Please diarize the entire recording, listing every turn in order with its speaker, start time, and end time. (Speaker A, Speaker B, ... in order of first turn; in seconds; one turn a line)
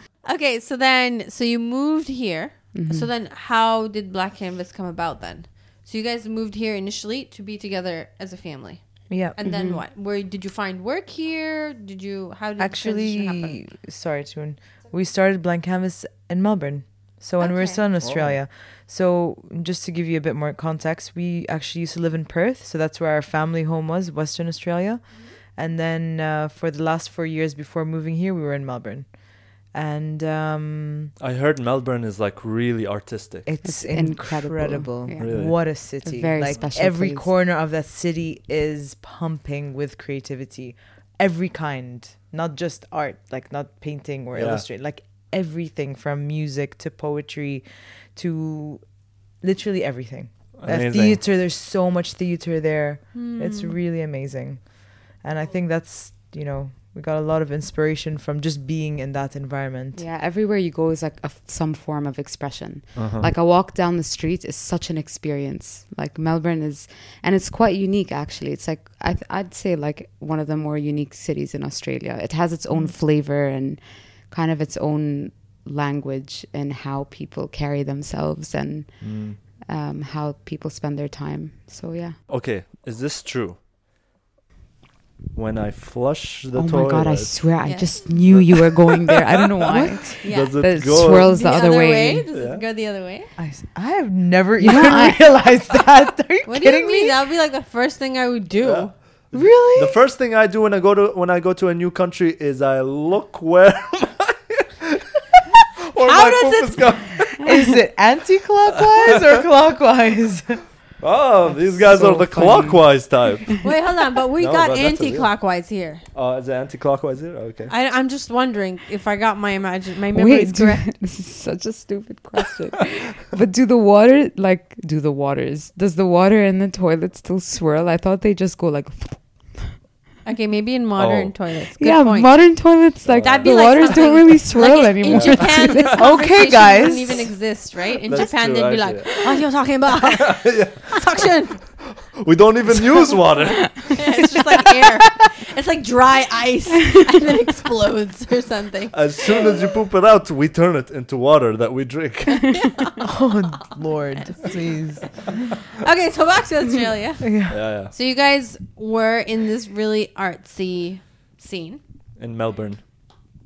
Speaker A: 0.2-13.7
Speaker B: 2.7-3.1
Speaker C: 9.1-9.4
Speaker B: 9.4-9.8
Speaker C: 12.6-31.1
Speaker A: 17.4-17.8
Speaker D: 18.0-18.4
Speaker D: 31.2-33.5
Speaker C: 33.5-60.0
Speaker B: 33.6-37.3
Speaker D: 35.2-35.6
Speaker D: 44.3-44.6
Speaker D: 50.6-51.2
Speaker A: 53.1-53.7
Speaker B: 60.0-82.2
Speaker D: 63.0-63.3
Speaker D: 79.0-79.4
Speaker D: 82.3-83.6
Speaker D: 85.3-89.2
Speaker B: 86.5-92.3
Speaker A: 87.6-88.3
Speaker C: 89.7-90.2
Speaker D: 89.8-91.3
Speaker A: 90.2-93.3
Speaker D: 92.3-92.6
Speaker C: 93.4-97.2
Speaker B: 94.6-95.6
Speaker A: 96.5-99.0
Speaker D: 98.6-105.0
Speaker C: 99.3-100.0
Speaker D: 105.9-107.5
Speaker A: 106.0-107.0
Speaker C: 107.4-110.8
Speaker D: 111.0-113.8
Speaker B: 111.8-113.5
Speaker A: 113.6-116.0
Speaker D: 114.4-115.3
Speaker D: 116.1-117.7
Speaker A: 117.7-120.9
Speaker B: 120.1-129.8
Speaker A: 130.2-132.5
Speaker D: 131.0-131.3
Speaker B: 131.8-136.0
Speaker D: 133.0-134.1
Speaker A: 133.1-141.8
Speaker D: 135.1-135.9
Speaker C: 136.0-137.3
Speaker D: 138.1-139.3
Speaker D: 140.2-144.0
Speaker A: 143.9-149.5
Speaker D: 148.9-152.8
Speaker C: 153.1-155.2
Speaker A: 155.2-161.8
Speaker C: 157.2-157.6
Speaker D: 157.5-157.9
Speaker D: 162.2-162.8